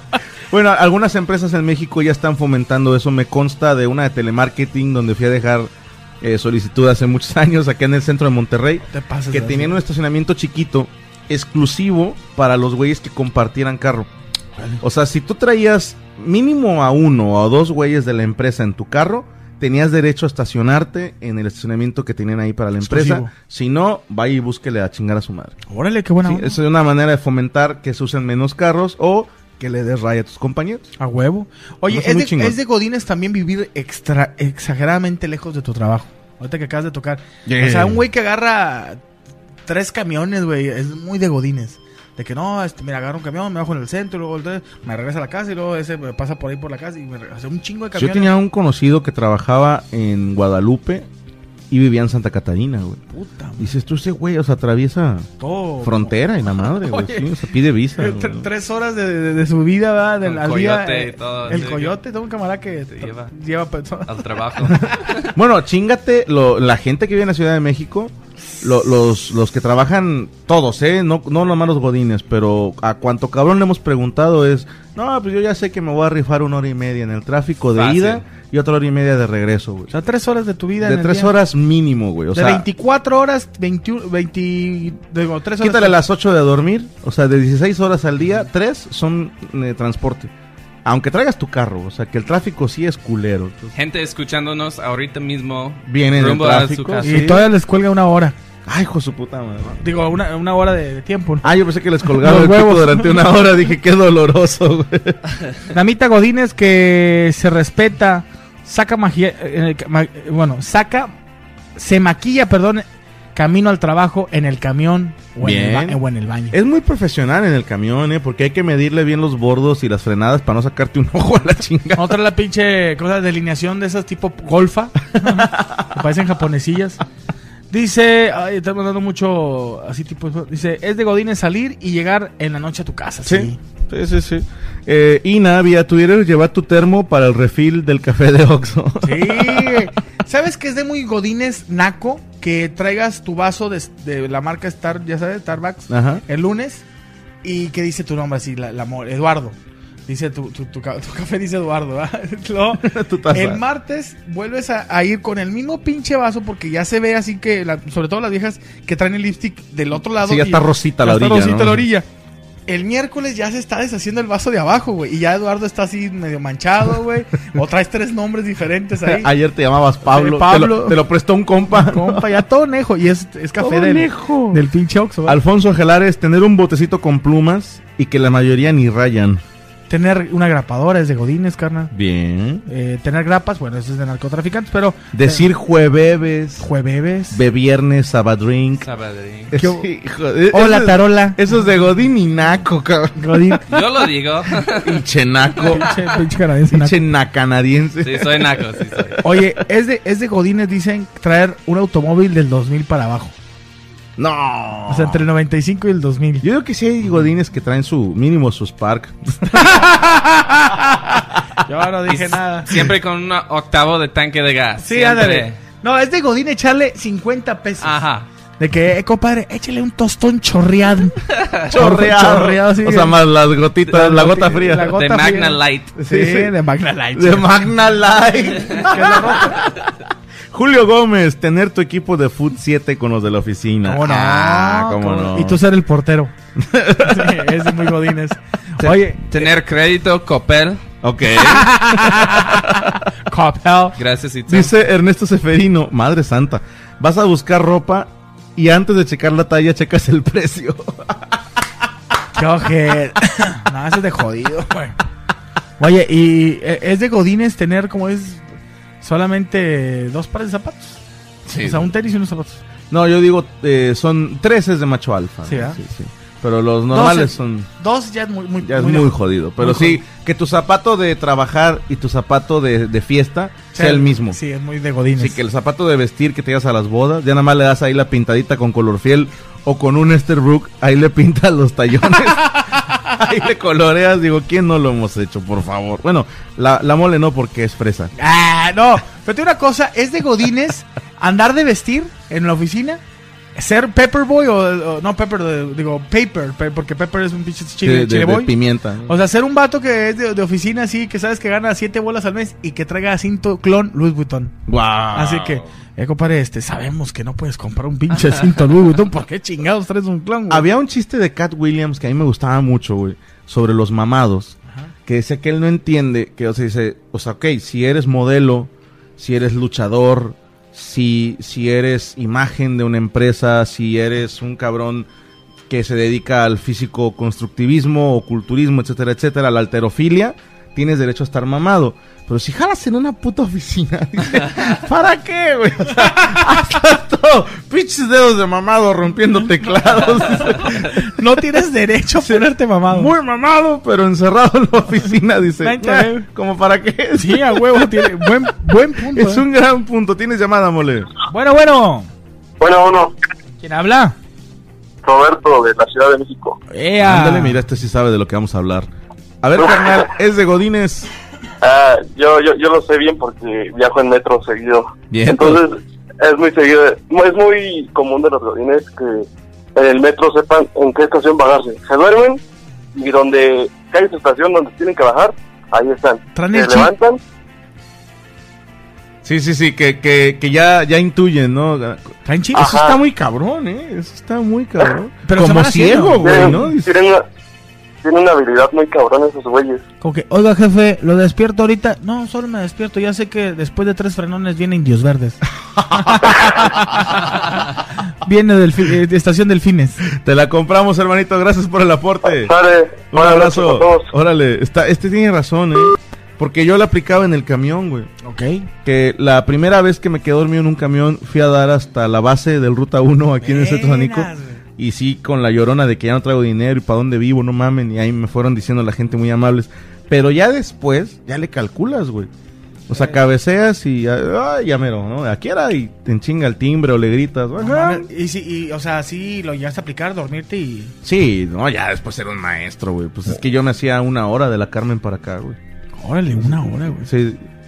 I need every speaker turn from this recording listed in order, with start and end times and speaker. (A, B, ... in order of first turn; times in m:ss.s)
0:00.5-0:14.1 A
0:08.9-0:09.8 B
0:14.8-0:25.6 A
0:22.8-0:23.3 B
0:25.7-0:26.5 B
0:26.2-0:30.9 A
0:31.0-0:39.0 B
0:31.9-0:32.6 A
0:37.4-0:38.0 A
0:39.7-0:48.3 B
0:47.9-0:51.1 A
0:51.7-0:53.0 A
0:53.1-0:53.7 B
0:53.6-0:55.3 A
0:55.4-0:57.3 B
0:55.8-0:58.5 A
0:58.0-1:04.9 B
1:00.2-1:02.0 C
1:02.9-1:03.3 C
1:04.1-1:05.3 C
1:05.3-1:19.9 A
1:17.7-1:18.2 C
1:19.9-1:21.3 B
1:20.8-1:22.6 A
1:22.3-1:26.0 B
1:25.6-1:30.3 A
1:30.8-1:33.7 A
1:33.7-1:37.2 C
1:35.8-1:37.5 A
1:37.0-1:38.3 B
1:38.6-1:39.8 A
1:39.8-1:41.5 B
1:41.4-1:45.2 A
1:42.1-1:43.2 B
1:45.7-1:51.1 B
1:51.8-1:56.5 B
1:55.4-1:56.0 A
1:56.5-2:02.1 A
2:02.0-2:07.0 B
2:07.7-2:13.6 B
2:13.2-2:19.9 A
2:19.0-2:26.8 B
2:25.9-2:26.2 A
2:27.4-2:29.6 B
2:30.1-2:42.0 B
2:32.8-2:33.6 A
2:40.2-2:41.8 A
2:42.7-2:49.3 B
2:49.0-2:52.4 A
2:50.0-2:51.0 B
2:51.7-2:55.4 B
2:53.6-2:54.6 A
2:55.2-2:59.4 A
2:59.9-3:01.9 B
3:01.9-3:02.6 A
3:02.7-3:05.5 B
3:05.1-3:06.7 A
3:06.6-3:07.4 B
3:07.3-3:08.9 A
3:08.8-3:09.5 C
3:09.5-3:13.6 A
3:09.5-3:09.8 B
3:10.5-3:11.4 B
3:13.2-3:13.6 B
3:13.7-3:15.0 C
3:14.7-3:15.9 A
3:15.7-3:17.0 B
3:16.7-3:18.6 A
3:18.0-3:19.2 C
3:19.2-3:23.3 B
3:24.2-3:25.2 A
3:24.9-3:26.4 B
3:26.4-3:29.6 A
3:29.4-3:31.1 B
3:31.6-3:32.9 B
3:32.1-3:35.6 C
3:34.8-3:37.9 B
3:37.8-3:38.2 C
3:38.6-3:43.1 B
3:41.7-3:44.9 A
3:43.9-3:47.6 B
3:44.8-3:45.9 C
3:46.0-3:46.5 A
3:47.1-3:49.8 A
3:48.6-3:49.6 B
3:50.5-3:55.6 A
3:53.8-3:56.3 B
3:56.6-3:57.4 A
3:57.0-3:59.2 B
3:58.8-3:59.4 A
3:59.3-4:00.8 C
4:01.0-4:02.9 A
4:01.4-4:02.6 B
4:03.3-4:04.0 B
4:04.0-4:04.7 C
4:04.5-4:11.3 A
4:12.4-4:15.0 B
4:15.8-4:18.4 B
4:19.0-4:21.0 B
4:21.5-4:21.9 A
4:21.5-4:22.6 B
4:22.9-4:27.7 A
4:25.4-4:25.8 B
4:26.9-4:30.0 B
4:28.6-4:34.4 A
4:33.7-4:35.4 B
4:35.2-4:48.1 A
4:48.2-4:53.0 B
4:53.6-4:58.5 B
4:57.8-4:59.1 A
4:59.1-5:04.5 B
5:04.7-5:05.6 A
5:05.1-5:10.6 B
5:10.5-5:25.1 A
5:25.7-5:40.9 A
5:40.6-5:43.1 B
5:42.2-5:48.3 A
5:45.6-5:46.2 B
5:47.1-5:49.4 B
5:49.1-5:51.1 A
5:51.3-5:52.1 B
5:52.6-5:53.1 D
5:53.6-5:54.2 B
5:55.0-5:56.6 D
5:56.7-5:57.6 B
5:57.0-5:58.9 A
5:59.4-6:01.1 A
6:01.6-6:12.4 D
6:05.1-6:05.6 A
6:12.9-6:17.2 D
6:16.3-6:16.9 B
6:19.2-6:26.9 A
6:22.2-6:22.8 B
6:22.6-6:22.9 D
6:25.2-6:26.7 B
6:26.2-6:27.2 D
6:28.0-6:29.8 D
6:30.0-6:35.4 B
6:35.8-6:36.1 A
6:35.9-6:37.2 B
6:38.2-6:40.0 B
6:40.2-6:42.5 A
6:42.4-6:44.1 D
6:43.1-6:48.1 A
6:48.2-6:48.7 B
6:48.8-7:02.3 A
6:53.4-6:54.6 B
7:02.9-7:08.1 A
7:02.9-7:03.2 B
7:07.6-7:10.9 B
7:11.0-7:15.6 A
7:16.0-7:17.1 B
7:16.4-7:17.4 A